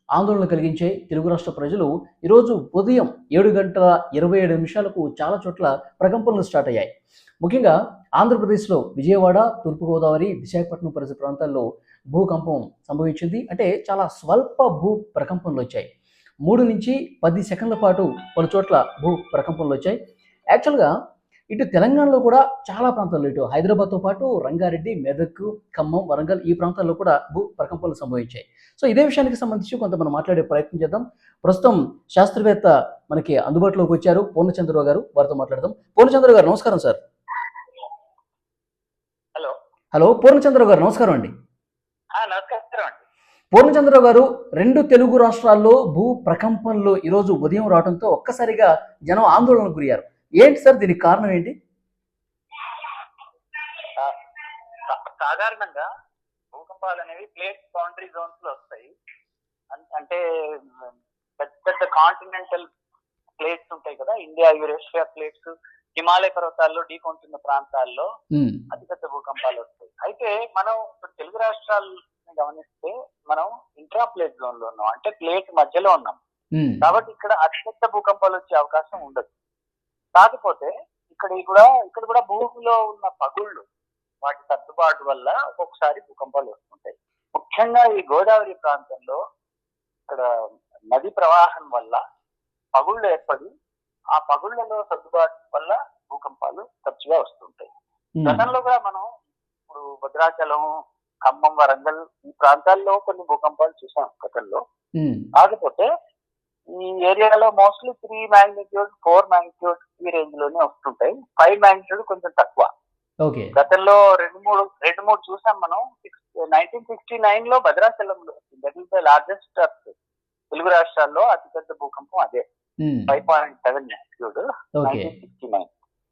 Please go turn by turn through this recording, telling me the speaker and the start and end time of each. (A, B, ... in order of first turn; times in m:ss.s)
0:00.2-0:06.9 A
0:07.4-0:15.9 A
0:16.4-0:20.0 A
0:20.5-0:20.9 A
0:21.5-0:37.0 A
0:39.9-0:41.3 A
0:42.2-0:43.0 B
0:43.5-0:51.5 A
0:52.6-0:53.0 B
0:54.9-0:55.8 B
0:56.5-0:58.9 B
0:59.7-1:00.2 B
1:01.4-1:02.6 B
1:03.4-1:08.1 B
1:08.7-1:16.2 B
1:16.6-1:16.8 A
1:16.8-1:19.3 B
1:20.2-1:23.6 B
1:24.2-1:29.2 B
1:30.9-1:32.0 B
1:32.7-1:33.5 B
1:34.2-1:37.7 B
1:38.2-1:38.4 A
1:38.2-1:39.0 B
1:39.7-1:40.7 B
1:41.2-1:44.6 B
1:45.4-1:45.9 B
1:46.8-1:52.7 B
1:53.2-1:53.5 A
1:53.6-1:59.9 B
2:00.5-2:02.4 B
2:02.8-2:03.1 A
2:03.1-2:05.7 B
2:04.8-2:05.1 A